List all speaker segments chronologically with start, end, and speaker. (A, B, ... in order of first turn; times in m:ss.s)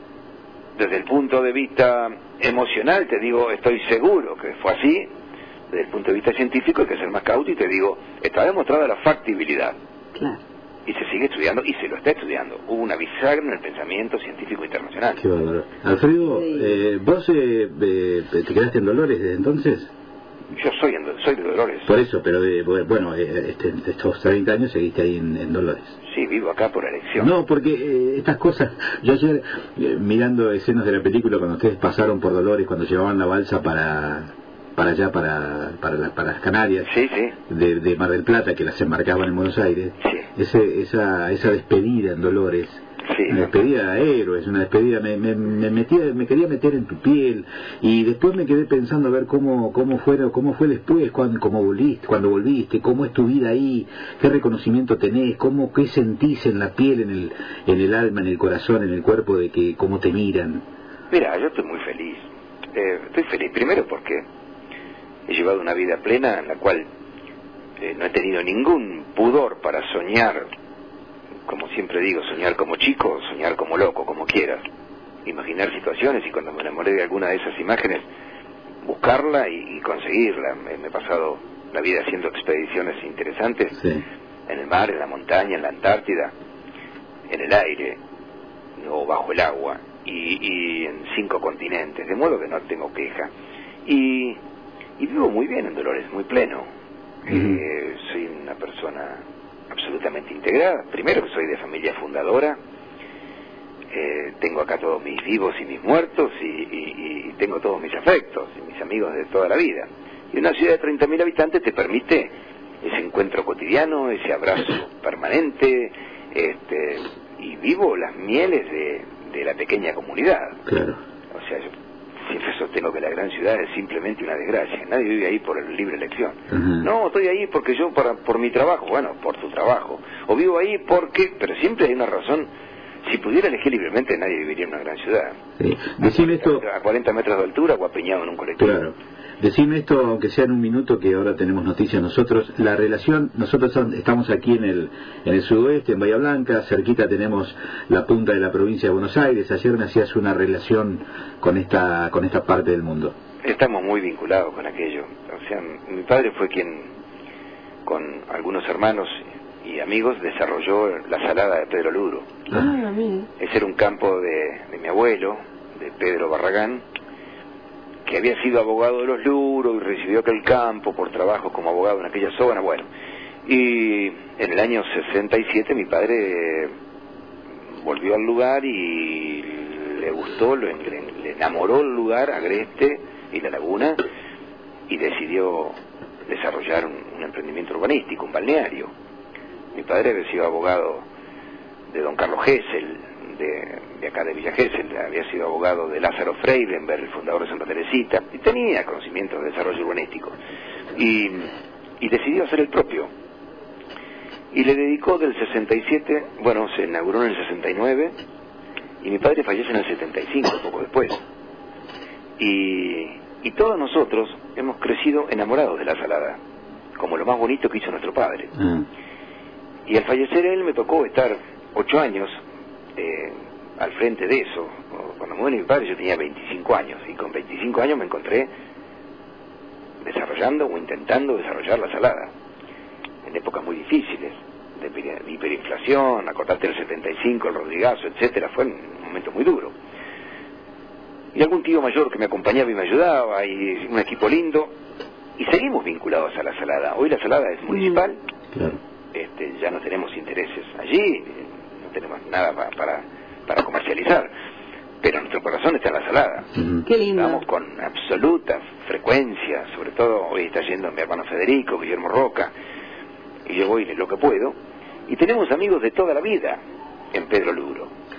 0:00.8-0:05.1 A
0:05.7-0:09.8 A
0:10.1-0:10.4 B
0:10.8-0:15.2 A
0:15.2-0:19.9 C
0:16.3-0:16.7 B
0:20.5-0:21.9 A
0:21.8-0:26.0 C
0:26.0-0:27.3 A
0:27.2-0:36.9 C
0:36.8-0:37.3 A
0:37.5-1:00.6 C
0:43.0-0:43.5 A
1:01.1-1:02.2 A
1:02.7-1:04.2 A
1:05.3-1:06.9 A
1:07.8-1:10.4 A
1:11.5-1:14.6 A
1:15.2-1:18.0 A
1:18.8-1:23.8 A
1:23.8-1:24.0 C
1:24.5-1:26.3 A
1:27.3-1:28.0 A
1:28.8-1:33.3 A
1:33.8-1:34.4 A
1:35.0-1:36.7 A
1:37.2-1:42.6 A
1:37.3-1:37.6 C
1:43.9-2:00.6 A
2:00.6-2:01.0 C
2:01.3-2:01.7 A
2:02.3-2:12.5 A
2:06.5-2:06.9 C
2:13.0-2:15.4 A
2:15.6-2:16.6 C
2:16.0-2:18.8 A
2:18.6-2:33.1 C
2:33.4-2:36.9 A
2:37.8-2:42.4 A
2:42.5-2:43.3 B
2:43.4-2:46.8 A
2:48.0-2:52.8 A
2:53.4-2:56.7 A
2:57.8-3:04.0 A
3:04.9-3:08.9 A
3:09.7-3:11.0 A
3:11.9-3:20.3 A
3:20.9-3:23.1 A
3:24.5-3:28.1 A
3:29.0-3:31.2 A
3:32.4-3:36.4 A
3:37.0-3:38.5 A
3:38.6-3:38.8 C
3:39.9-3:42.4 A
3:43.0-3:48.5 A
3:50.0-3:52.3 A
3:53.2-3:59.7 A
4:01.3-4:04.7 A
4:05.4-4:08.2 A
4:07.7-4:08.0 B
4:08.5-4:08.8 C
4:09.1-4:14.3 A
4:15.0-4:16.5 A
4:16.5-4:16.8 C
4:16.8-4:17.4 B
4:17.1-4:22.5 A
4:23.4-4:24.6 A
4:25.1-4:26.6 A
4:27.1-4:27.9 A